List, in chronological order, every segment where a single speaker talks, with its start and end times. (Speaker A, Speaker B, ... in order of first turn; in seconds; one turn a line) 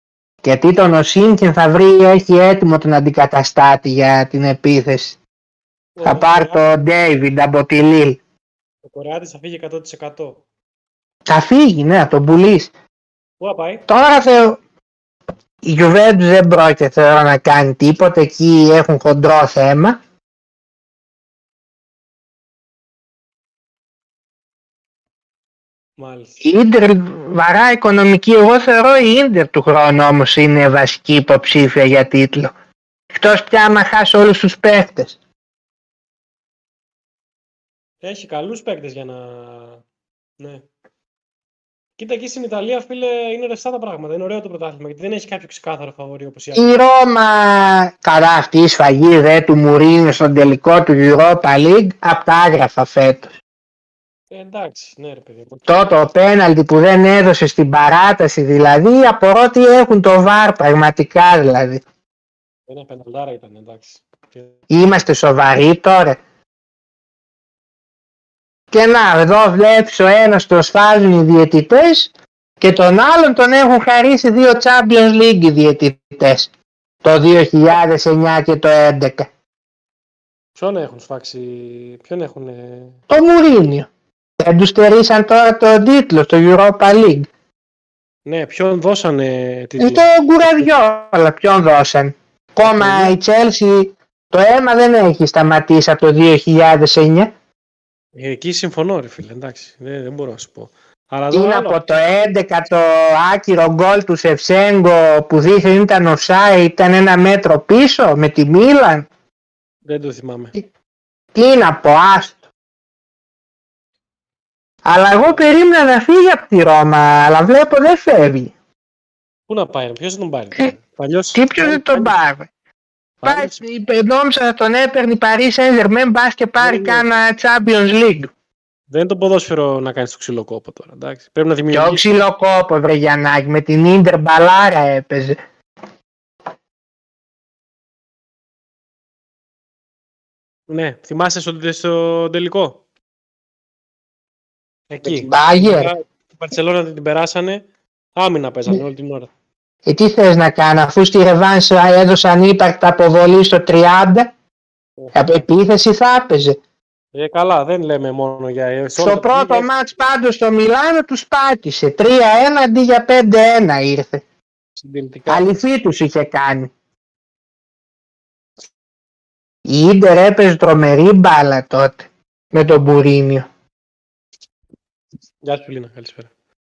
Speaker A: 0.4-5.2
Speaker B: 6.0-6.6
Speaker A: 6.0-8.2
Speaker B: 8.8-10.4
Speaker A: 11.2-12.7
Speaker B: 13.4-13.8
Speaker A: 13.9-14.6
Speaker A: 15.6-20.0
Speaker B: 26.0-26.4
Speaker A: 26.4-32.5
Speaker A: 33.1-35.1
Speaker B: 38.0-39.8
Speaker B: 40.4-40.7
Speaker B: 42.0-46.7
Speaker A: 46.5-53.3
Speaker B: 54.3-55.9
Speaker A: 55.7-61.8
Speaker B: 62.7-64.5
Speaker A: 64.7-66.2
Speaker A: 68.7-76.5
Speaker A: 77.0-79.3
Speaker B: 80.5-83.0
Speaker A: 83.1-87.3
Speaker B: 88.2-90.7
Speaker A: 89.8-97.3
Speaker B: 92.6-93.1
Speaker B: 98.1-101.8
Speaker A: 101.3-109.1
Speaker B: 109.8-110.5
Speaker A: 111.3-112.4
Speaker A: 114.8-118.5
Speaker B: 115.1-115.4
Speaker B: 119.5-122.1
Speaker A: 121.3-122.5
Speaker B: 123.2-123.6
Speaker A: 123.2-128.3
Speaker B: 126.6-127.1
Speaker B: 128.9-132.1
Speaker A: 131.7-135.4
Speaker B: 140.7-142.8
Speaker B: 144.9-149.3
Speaker A: 145.0-145.9
Speaker A: 149.8-154.3
Speaker B: 155.0-155.4
Speaker A: 155.1-156.6
Speaker B: 157.1-159.7
Speaker A: 159.0-164.2
Speaker B: 164.8-165.4
Speaker A: 165.3-166.7
Speaker A: 169.7-173.5
Speaker B: 175.4-176.3